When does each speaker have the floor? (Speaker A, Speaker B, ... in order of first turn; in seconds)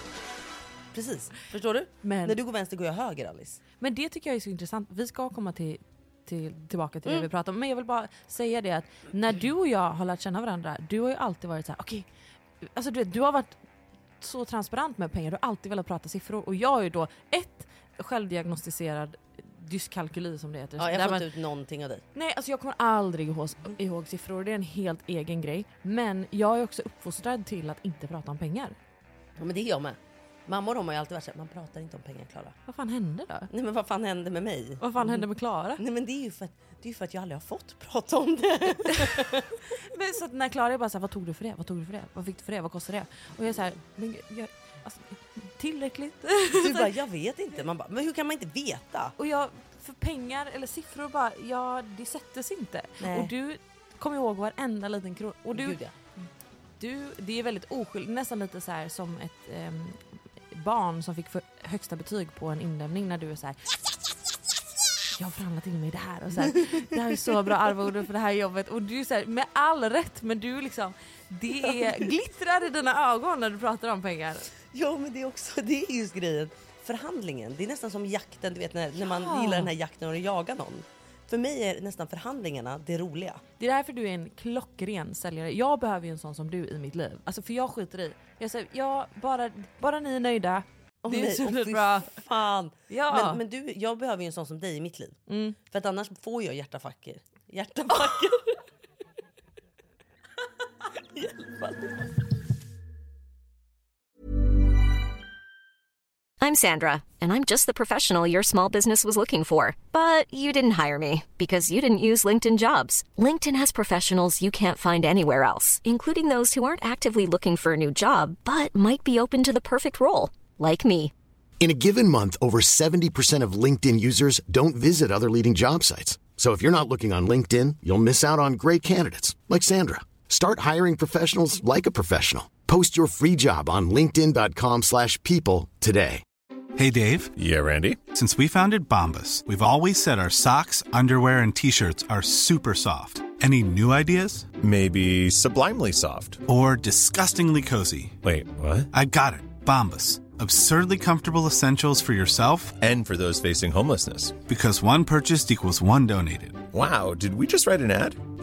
Speaker A: 0.9-3.6, 20.8-22.0, 29.4-32.5, 33.5-35.2, 35.8-39.5, 46.5-49.1, 53.0-53.3, 55.5-55.9, 71.6-72.0, 74.7-83.4, 91.0-98.6, 101.1-102.0
Speaker B: 2.0-2.4, 3.8-12.1, 12.6-13.6, 14.2-21.2, 22.1-28.8, 32.7-33.5, 34.8-35.8, 38.9-46.9, 49.2-55.8, 56.8-63.6, 65.1-74.5, 79.0-79.7, 83.6-92.2, 92.9-93.4, 95.3-95.6
Speaker C: 106.4-121.1
Speaker D: 121.6-136.2
Speaker E: 136.8-137.3, 138.1-144.5, 146.4-148.2, 148.9-152.8, 154.4-156.7
Speaker F: 137.3-138.0, 144.6-146.4, 148.2-148.9, 152.8-154.4, 156.7-158.2